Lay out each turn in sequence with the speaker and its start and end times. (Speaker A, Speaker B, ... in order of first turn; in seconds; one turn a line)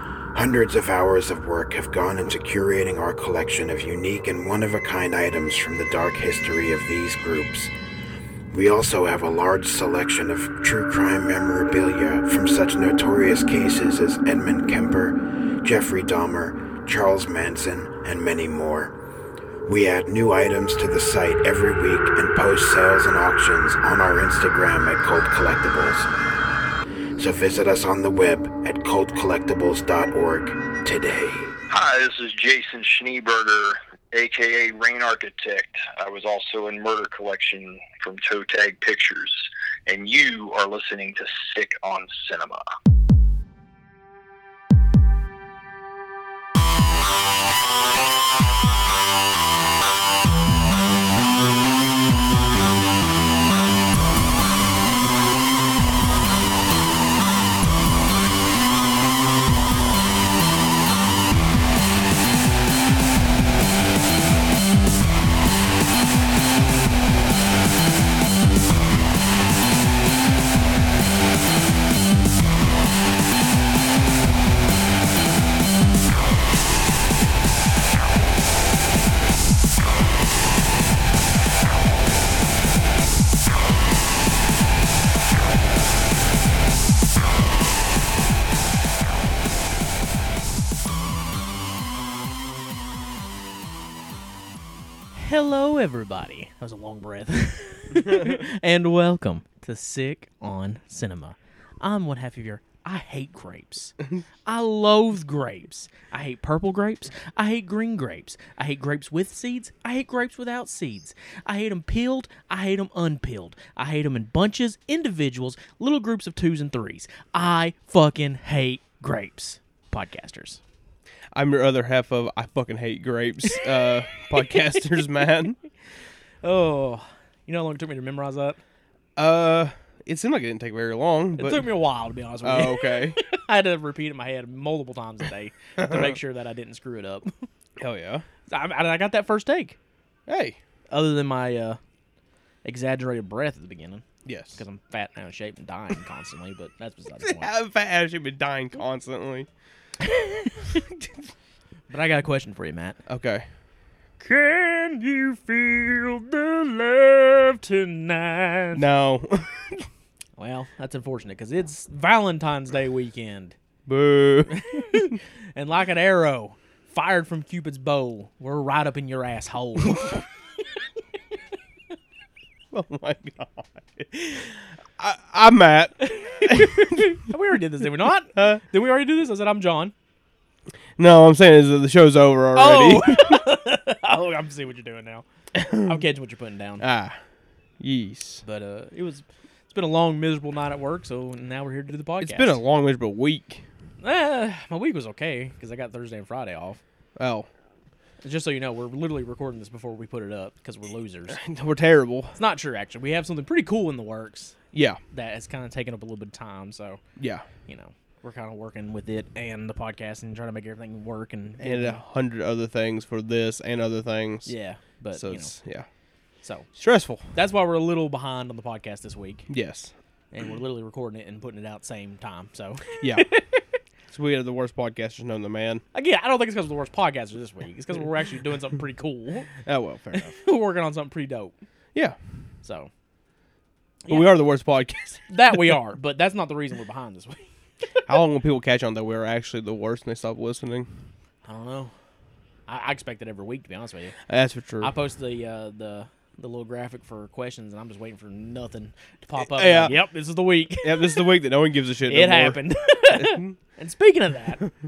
Speaker A: 0.3-7.7
Speaker A: 8.5-18.9
Speaker A: 19.6-26.1
Speaker A: 27.2-31.6
Speaker B: 31.7-42.6
Speaker C: 95.1-120.6
Speaker D: 121.3-125.6
Speaker C: 126.4-128.6
Speaker D: 129.2-131.7
Speaker C: 131.4-137.5
Speaker D: 132.4-133.2
Speaker D: 135.8-136.2
Speaker D: 137.8-138.2
Speaker C: 138.5-139.8
Speaker D: 140.3-140.6
Speaker C: 140.9-141.8
Speaker C: 142.6-144.1
Speaker D: 144.2-144.6
Speaker C: 144.6-147.5
Speaker D: 147.2-149.5
Speaker C: 150.0-150.8
Speaker C: 151.9-153.0
Speaker D: 153.1-153.5
Speaker C: 154.2-158.8
Speaker D: 158.7-159.8
Speaker C: 160.4-163.6
Speaker D: 163.9-165.1
Speaker C: 164.5-170.2
Speaker D: 172.7-177.1
Speaker C: 176.1-179.9
Speaker D: 178.3-178.6
Speaker D: 181.0-183.4
Speaker C: 182.6-186.8
Speaker D: 185.6-186.0
Speaker D: 186.8-187.2
Speaker D: 187.8-188.4
Speaker C: 188.4-192.6
Speaker D: 192.2-193.7
Speaker C: 194.0-196.8
Speaker D: 197.2-197.5
Speaker C: 198.2-201.4
Speaker D: 201.3-202.4
Speaker C: 202.3-204.6
Speaker D: 204.7-205.0
Speaker C: 205.1-207.0
Speaker D: 207.2-207.5
Speaker C: 207.7-212.0
Speaker D: 211.6-214.5
Speaker C: 214.5-215.6
Speaker D: 215.1-215.9
Speaker C: 216.4-216.7
Speaker D: 216.7-217.3
Speaker C: 217.3-219.5
Speaker D: 219.5-219.9
Speaker C: 220.3-223.3
Speaker D: 223.0-223.3
Speaker D: 224.1-225.8
Speaker C: 225.9-229.5
Speaker D: 229.6-230.3
Speaker C: 230.2-231.5
Speaker C: 232.6-232.9
Speaker D: 234.1-235.6
Speaker C: 235.3-237.5
Speaker D: 238.1-240.9
Speaker C: 241.4-241.9
Speaker C: 242.7-244.2
Speaker D: 244.3-244.9
Speaker C: 244.8-251.3
Speaker D: 249.4-250.0
Speaker D: 250.8-252.6
Speaker C: 252.1-254.7
Speaker D: 253.1-253.6